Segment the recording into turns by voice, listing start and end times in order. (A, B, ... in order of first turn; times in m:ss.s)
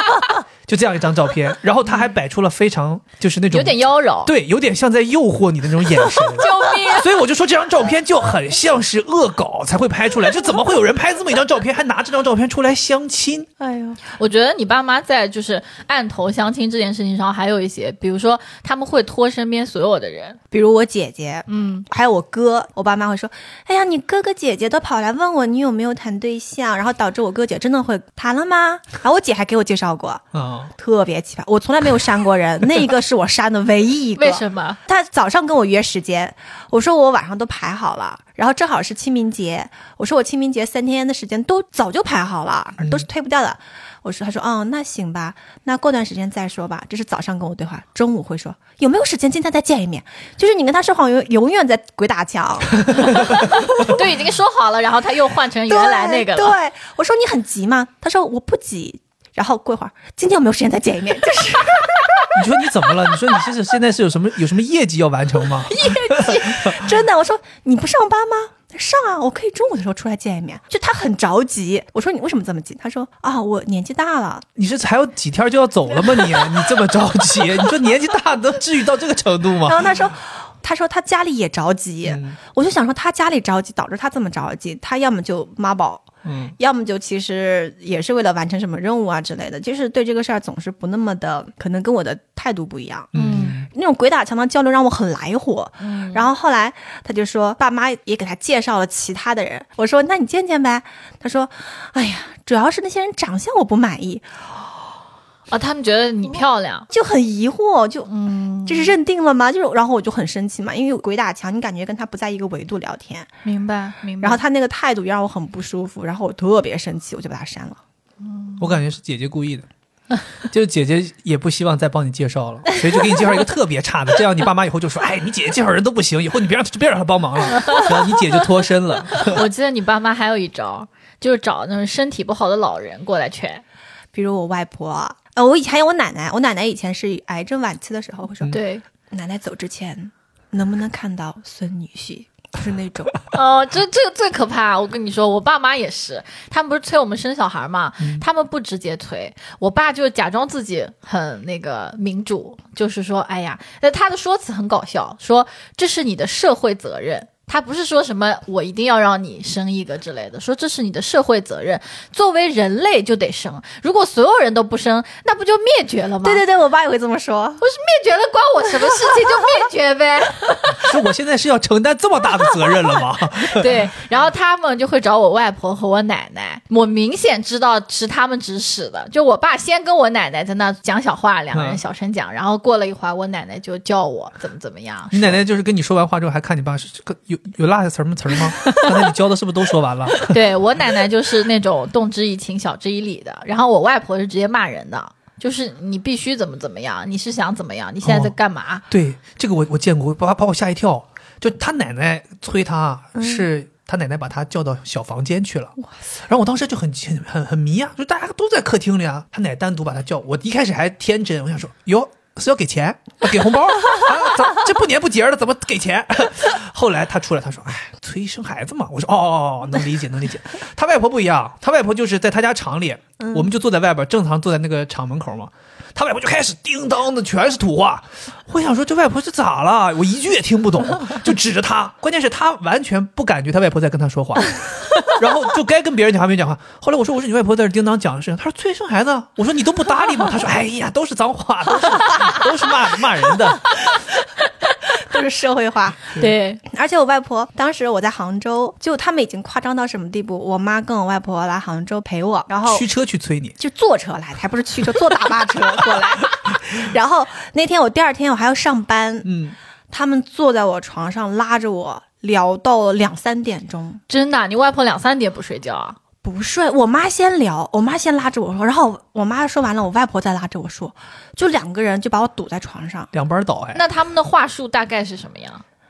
0:00.7-0:13.5 A
0:03.5-0:04.3 B
0:06.2-0:07.1 B
0:13.6-0:14.0 C
0:14.0-0:20.4 B
0:20.5-0:30.2 C
0:21.5-0:21.8 B
0:30.3-0:30.7 A
0:30.8-0:53.9 C
0:34.2-0:34.8 B
0:53.4-0:56.5 B
0:55.7-1:02.4 C
1:02.3-1:06.8 A
1:05.7-1:06.7 B
1:06.3-1:14.4 C
1:14.6-1:19.9 A
1:19.6-1:44.3 C
1:22.0-1:22.4 A
1:26.2-1:26.5 A
1:33.1-1:33.7 A
1:33.1-1:33.6 B
1:35.8-1:36.2 B
1:45.5-1:46.9 B
1:46.9-1:48.1 C
1:48.1-1:49.0 B
1:48.6-1:53.3 C
1:53.4-1:54.4 B
1:54.2-1:57.8 C
1:58.2-1:58.8 B
1:58.6-1:59.7 A
2:00.5-2:09.4 A
2:07.5-2:07.9 B
2:09.1-2:13.6 B
2:14.1-2:23.3 C
2:18.5-2:18.8 B
2:23.3-2:46.4 B
2:46.2-2:47.6 C
2:47.6-2:50.9 B
2:50.8-2:53.8 A
2:53.5-3:05.4 B
3:01.5-3:01.8 A
3:05.1-3:10.4 A
3:08.6-3:08.9 B
3:10.2-3:18.8 B
3:18.0-3:18.3 A
3:18.9-3:25.7 A
3:23.2-3:23.4 C
3:26.2-4:03.7 A
3:43.2-3:43.4 C
4:04.9-4:12.9 C
4:06.1-4:06.6 B
4:12.6-4:13.5 A
4:13.6-4:19.3 C
4:19.2-4:19.6 A
4:19.9-4:24.0 C
4:24.1-4:26.0 B
4:26.2-4:33.1 C
4:33.1-4:33.8 A
4:33.7-4:35.6 B